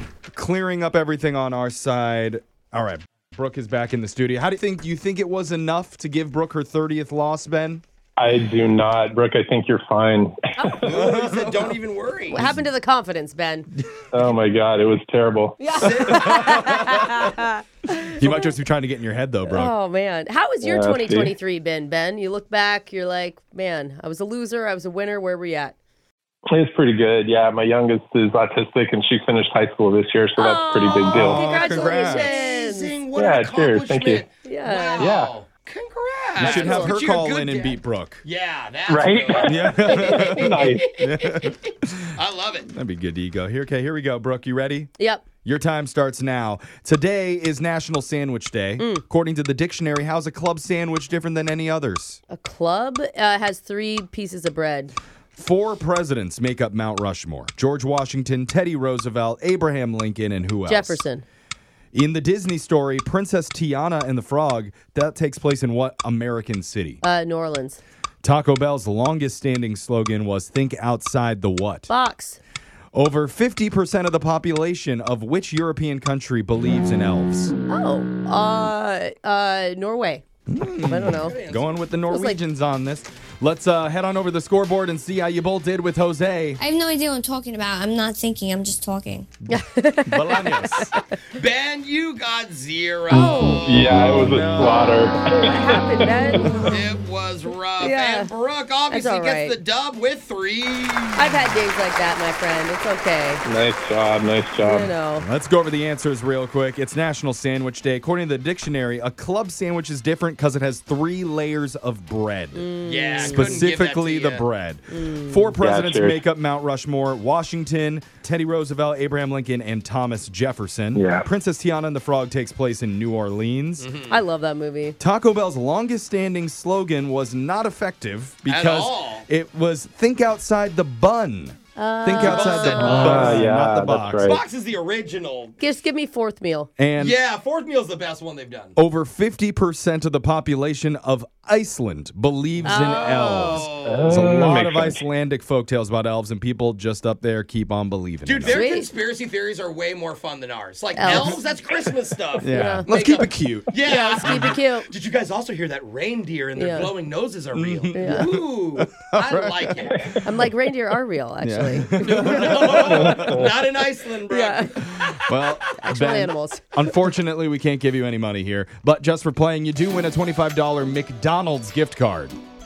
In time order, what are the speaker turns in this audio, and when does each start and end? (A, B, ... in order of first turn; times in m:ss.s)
0:00.3-0:07.8 A
0:08.2-0:10.9 B
0:10.8-0:12.5 C
0:10.8-0:11.7 A
0:12.3-0:13.7 D
0:12.3-0:12.6 A
0:14.1-0:15.7 B
0:15.6-0:18.5 D
0:15.7-0:16.8 C
0:16.0-0:17.2 A
0:18.1-0:19.7 A
0:19.4-0:25.8 D
0:20.6-0:21.3 B
0:26.5-0:31.5 B
0:30.4-0:32.9 D
0:30.4-0:41.5 C
0:31.1-0:32.4 A
0:33.2-0:34.2 B
0:34.4-0:35.1 D
0:35.0-0:35.3 B
0:36.4-0:38.2 A
0:36.4-0:36.9 D
0:38.9-0:40.9 B
0:39.4-0:42.1 A
0:42.1-0:42.7 C
0:42.7-0:44.9 A
0:45.0-0:45.2 D
0:45.4-0:52.2 A
0:48.8-0:49.0 D
0:52.3-0:54.9 D
0:55.3-1:01.0 A
1:00.7-1:01.2 D
1:01.9-1:07.0 A
1:07.0-1:07.8 D
1:08.2-1:11.9 A
1:11.9-1:12.4 D
1:12.9-1:17.5 A
1:17.7-1:20.2 D
1:20.5-1:26.6 A
1:20.9-1:21.4 D
1:21.1-1:21.8 C
1:22.1-1:22.4 D
1:26.6-1:29.3 E
1:29.5-1:30.9 A
1:29.5-1:30.9 D
1:31.3-1:33.9 C
1:33.1-1:33.7 D
1:33.5-1:36.8 B
1:33.9-1:35.2 A
1:35.3-1:36.8 D
1:36.7-1:41.3 C
1:37.8-1:38.3 D
1:38.9-1:39.6 D
1:41.2-1:43.4 D
1:43.4-1:44.9 B
1:44.6-1:45.2 D
1:45.2-2:03.9 A
1:52.5-1:53.6 D
1:52.8-1:54.4 C
1:54.9-1:55.5 D
1:55.6-1:56.2 B
2:00.9-2:01.3 B
2:03.8-2:04.2 C
2:04.1-2:05.0 D
2:05.0-2:14.4 A
2:08.5-2:09.2 C
2:11.8-2:13.4 D
2:12.1-2:13.5 C
2:12.8-2:14.4 B
2:14.2-2:15.6 C
2:15.6-2:16.7 D
2:16.8-2:17.2 A
2:17.0-2:18.8 C
2:18.8-2:28.6 A
2:22.6-2:24.3 C
2:22.6-2:23.7 D
2:23.8-2:25.0 B
2:28.2-2:40.0 C
2:28.4-2:28.9 D
2:31.0-2:31.4 D
2:31.0-2:31.4 A
2:32.4-2:33.7 A
2:32.5-2:32.9 D
2:33.8-2:34.8 D
2:36.6-2:36.9 D
2:37.5-2:39.9 A
2:37.9-2:38.3 D
2:40.2-2:42.1 D
2:41.4-2:43.5 A
2:42.0-2:45.0 C
2:43.1-2:43.4 B
2:44.3-2:44.7 D
2:44.8-2:52.4 A
2:45.8-2:46.8 D